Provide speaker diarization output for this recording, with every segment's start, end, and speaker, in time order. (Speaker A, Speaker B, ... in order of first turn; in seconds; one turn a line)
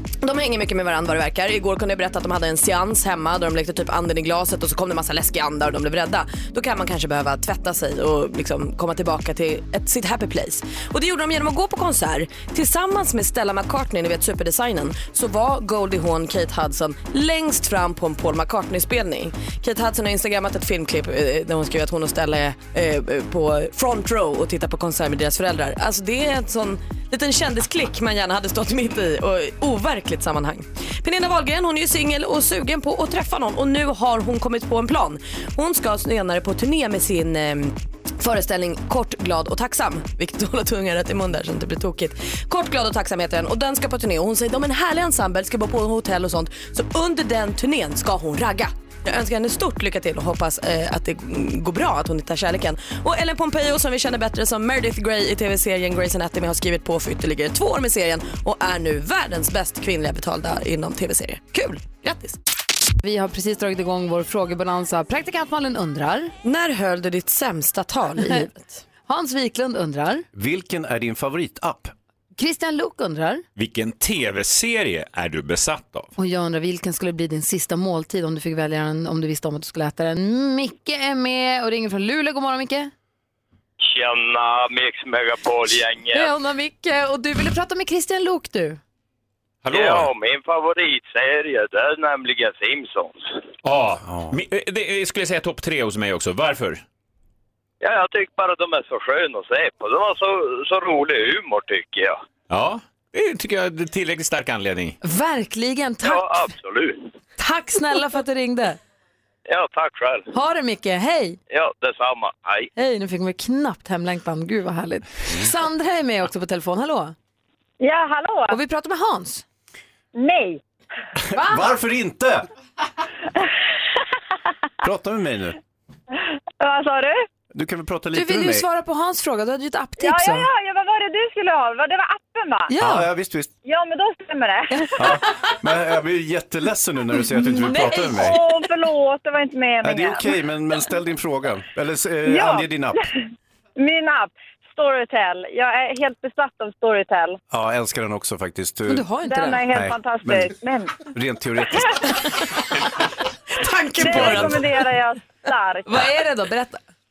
Speaker A: 0.2-62.4
Speaker B: 63.0-66.3
Speaker A: 66.4-68.8
Speaker B: 69.1-70.2
Speaker C: 70.3-71.9
Speaker B: 72.4-73.4
Speaker D: 73.5-76.1
Speaker B: 76.2-82.9
Speaker E: 83.8-86.3
Speaker B: 86.1-88.8
Speaker D: 89.6-90.1
Speaker E: 89.7-93.2
Speaker D: 93.6-96.8
Speaker C: 94.0-94.3
Speaker E: 97.8-102.2
Speaker D: 102.5-105.0
Speaker B: 105.0-106.5
Speaker E: 106.0-107.1
Speaker B: 107.4-108.8
Speaker E: 109.5-110.3
Speaker B: 110.3-111.4
Speaker E: 111.5-112.7
Speaker B: 112.8-117.1
Speaker F: 117.8-118.6
Speaker B: 118.5-119.4
Speaker F: 120.1-120.6
Speaker C: 121.2-122.5
Speaker B: 121.3-121.6
Speaker C: 124.8-125.6
Speaker F: 126.6-127.2
Speaker C: 127.5-128.7
Speaker B: 128.1-130.5
Speaker F: 130.0-132.7
Speaker B: 132.7-133.1
Speaker C: 132.8-133.5
Speaker F: 133.6-135.2
Speaker C: 134.9-138.4
Speaker B: 137.5-138.3
Speaker F: 137.7-140.3
Speaker C: 139.8-143.0
Speaker F: 142.2-143.1
Speaker F: 143.8-147.4
Speaker C: 147.5-149.1
Speaker B: 148.9-149.7
Speaker F: 149.2-151.1
Speaker C: 149.6-150.5
Speaker C: 151.1-152.0
Speaker F: 151.7-151.9
Speaker A: 153.6-154.6
Speaker F: 154.0-156.0
Speaker C: 154.0-154.7
Speaker B: 155.8-156.8